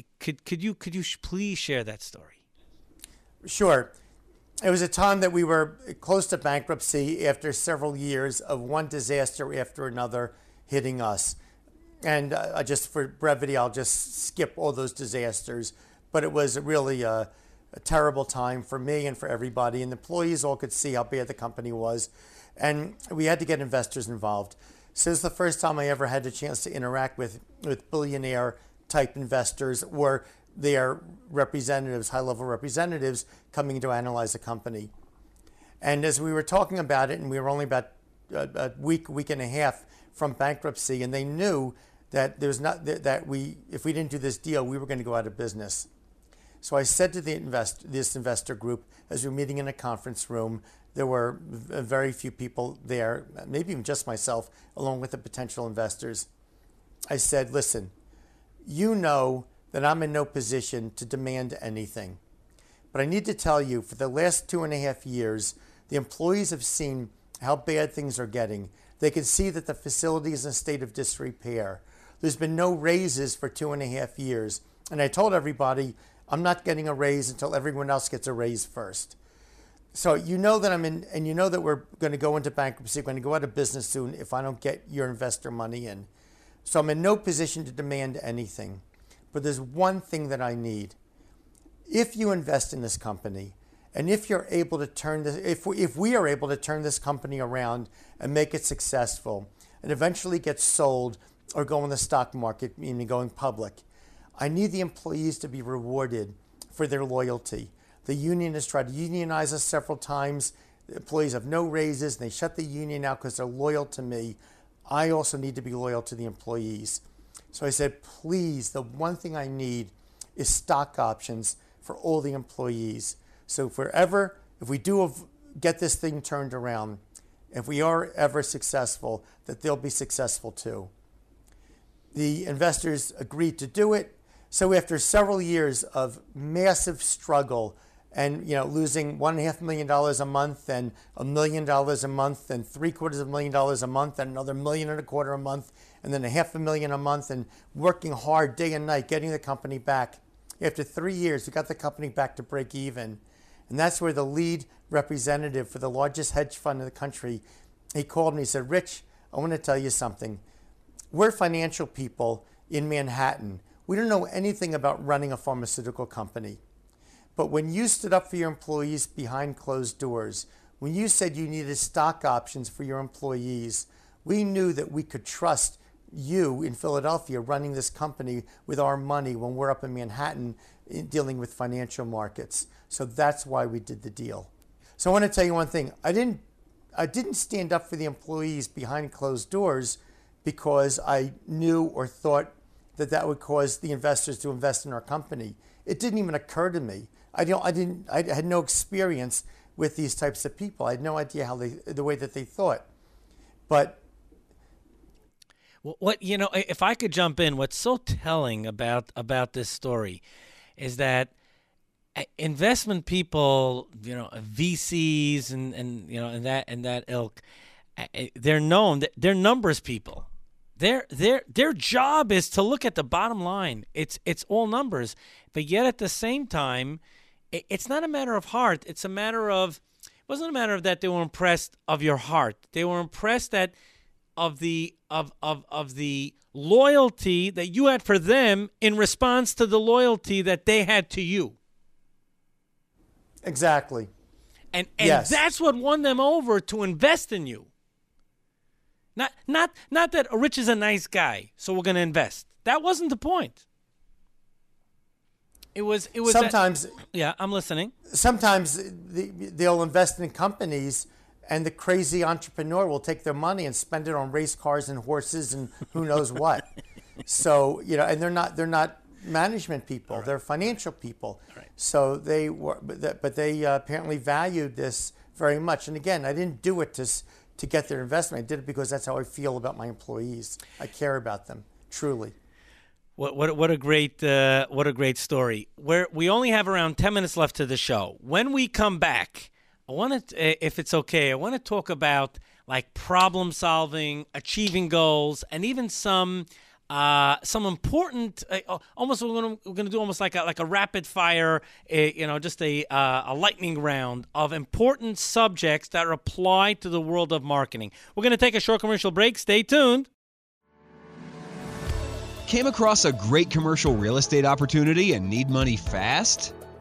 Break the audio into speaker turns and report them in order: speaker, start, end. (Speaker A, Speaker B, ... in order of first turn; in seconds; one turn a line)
Speaker A: 0.2-2.4
Speaker B: 3.5-3.9
Speaker B: 4.6-11.4
Speaker B: 12.0-34.9
Speaker B: 35.8-45.9
Speaker B: 46.6-56.3
Speaker B: 57.1-57.9
Speaker B: 58.6-62.2
Speaker B: 62.9-79.2
Speaker B: 79.9-86.1
Speaker B: 86.7-91.0
Speaker B: 91.9-103.8
Speaker B: 104.4-127.0
Speaker B: 127.5-130.9
Speaker B: 132.1-157.4
Speaker B: 157.9-160.4
Speaker B: 161.1-166.6
Speaker B: 167.4-202.9
Speaker B: 203.7-204.0
Speaker A: 205.8-210.2
Speaker A: 210.8-211.3
Speaker A: 212.2-217.4
Speaker A: 218.0-220.3
Speaker A: 220.8-227.0
Speaker A: 227.5-233.7
Speaker A: 234.4-241.6
Speaker B: 243.4-244.1
Speaker A: 244.7-247.7
Speaker B: 245.0-245.4
Speaker A: 249.2-253.6
Speaker A: 255.8-256.6
Speaker B: 256.2-256.9
Speaker A: 257.1-257.9
Speaker B: 258.1-266.7
Speaker B: 267.3-282.4
Speaker A: 283.2-310.1
Speaker C: 312.5-316.5